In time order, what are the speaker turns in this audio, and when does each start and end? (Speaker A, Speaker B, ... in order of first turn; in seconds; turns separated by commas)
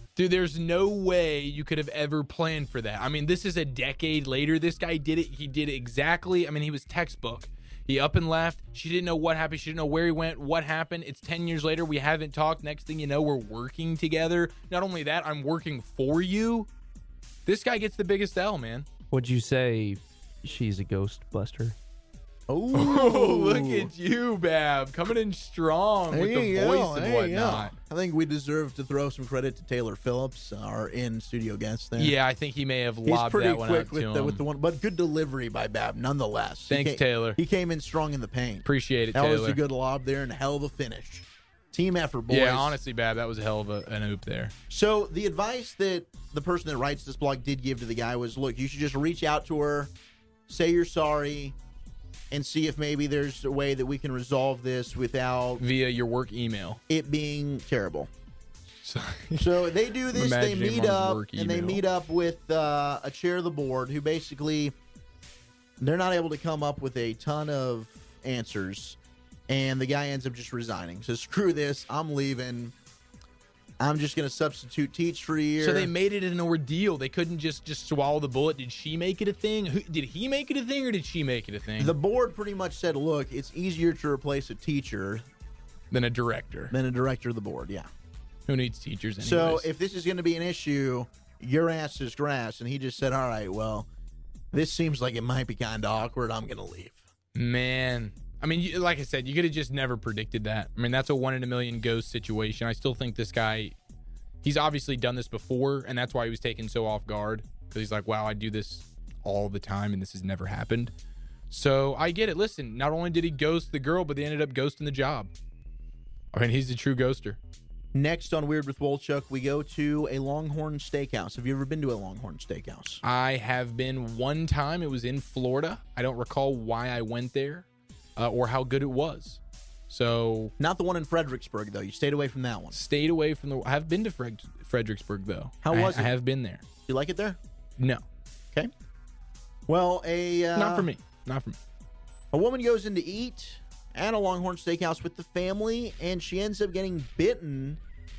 Speaker A: 0.1-16.7, Speaker A: 17.4-18.9, Speaker B: 19.1-21.7, Speaker C: 22.5-23.9, Speaker A: 22.7-27.7, Speaker C: 26.1-32.1, Speaker A: 32.0-34.4, Speaker C: 33.0-42.8, Speaker A: 36.7-37.4, Speaker A: 38.6-39.6, Speaker A: 42.3-44.5, Speaker C: 44.7-49.9, Speaker C: 50.5-51.5, Speaker C: 52.3-55.6, Speaker A: 55.6-56.8, Speaker C: 56.9-58.1, Speaker A: 58.8-59.5, Speaker C: 59.4-64.7, Speaker A: 60.1-61.8, Speaker C: 65.8-69.0, Speaker C: 69.5-72.7, Speaker C: 73.8-75.9, Speaker A: 75.6-81.9, Speaker C: 81.8-85.2, Speaker A: 85.9-86.7, Speaker C: 86.7-87.9, Speaker A: 88.5-89.7, Speaker C: 89.2-93.9, Speaker C: 94.5-97.0, Speaker A: 97.3-103.8, Speaker A: 104.4-110.9, Speaker A: 111.5-115.3, Speaker A: 116.3-117.4, Speaker C: 117.9-123.0, Speaker A: 123.0-130.5, Speaker C: 130.6-132.8, Speaker A: 132.7-136.6, Speaker C: 135.6-136.1, Speaker C: 136.9-137.4, Speaker A: 137.8-138.0, Speaker C: 139.7-140.9, Speaker A: 140.5-141.6, Speaker C: 142.3-147.8